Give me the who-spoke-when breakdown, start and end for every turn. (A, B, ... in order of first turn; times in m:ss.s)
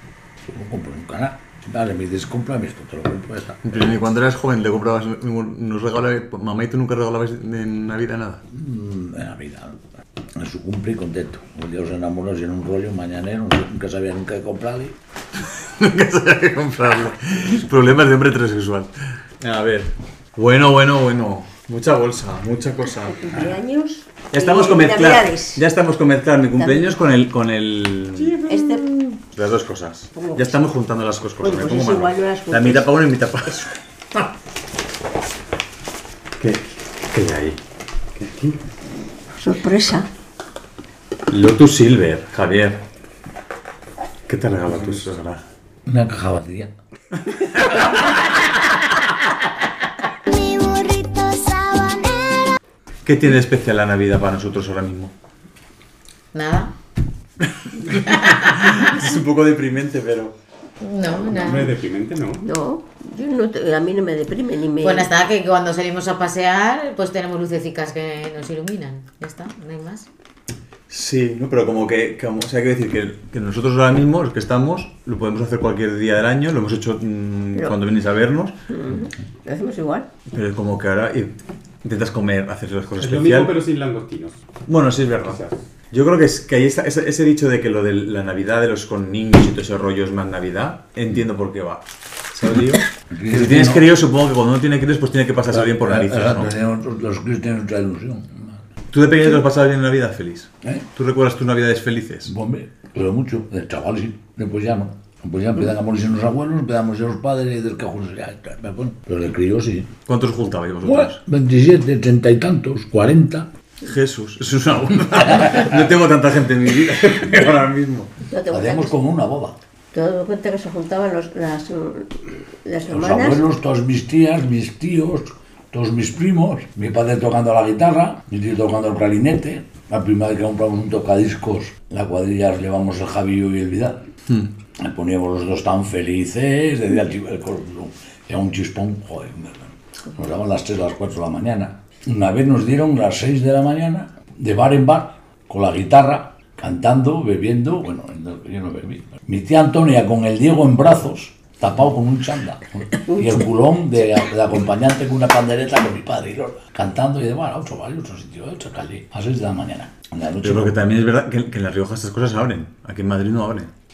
0:00.5-0:03.8 A
0:03.6-0:08.4 B
0:08.5-0:09.8 A
0:10.4-0:15.0 A
0:15.5-0:23.6 B
0:23.0-0:25.6 C
0:24.3-0:34.3 B
0:26.6-0:26.9 C
0:28.2-0:29.2 C
0:30.2-0:30.6 C
0:31.4-0:32.9 C
0:36.4-0:37.6 B
0:39.4-0:40.1 C
0:41.3-0:42.8 B
0:44.3-0:45.4 B
0:45.9-0:46.7 A
0:53.0-0:55.1 B
0:56.3-0:56.7 D
0:57.6-1:00.4 B
0:58.1-0:58.9 D
1:00.8-1:01.7 D
1:01.2-1:02.5 E
1:02.4-1:05.2 C
1:04.8-1:10.1 D
1:10.9-1:18.6 B
1:18.7-1:20.1 C
1:20.3-1:23.6 B
1:23.0-1:24.4 E
1:24.7-1:25.4 B
1:25.3-1:25.6 E
1:25.9-1:36.5 B
1:33.1-1:33.9 A
1:35.5-1:38.6 A
1:38.9-1:42.3 B
1:42.3-1:49.9 A
1:50.1-1:51.2 B
1:50.8-1:53.5 A
1:53.8-1:58.1 B
1:55.3-1:55.7 A
1:58.3-1:59.0 C
1:58.5-1:59.6 A
1:59.9-2:03.4 C
2:02.9-2:14.0 A
2:14.8-2:40.8 A
2:33.1-2:33.4 C
2:40.4-2:43.7 B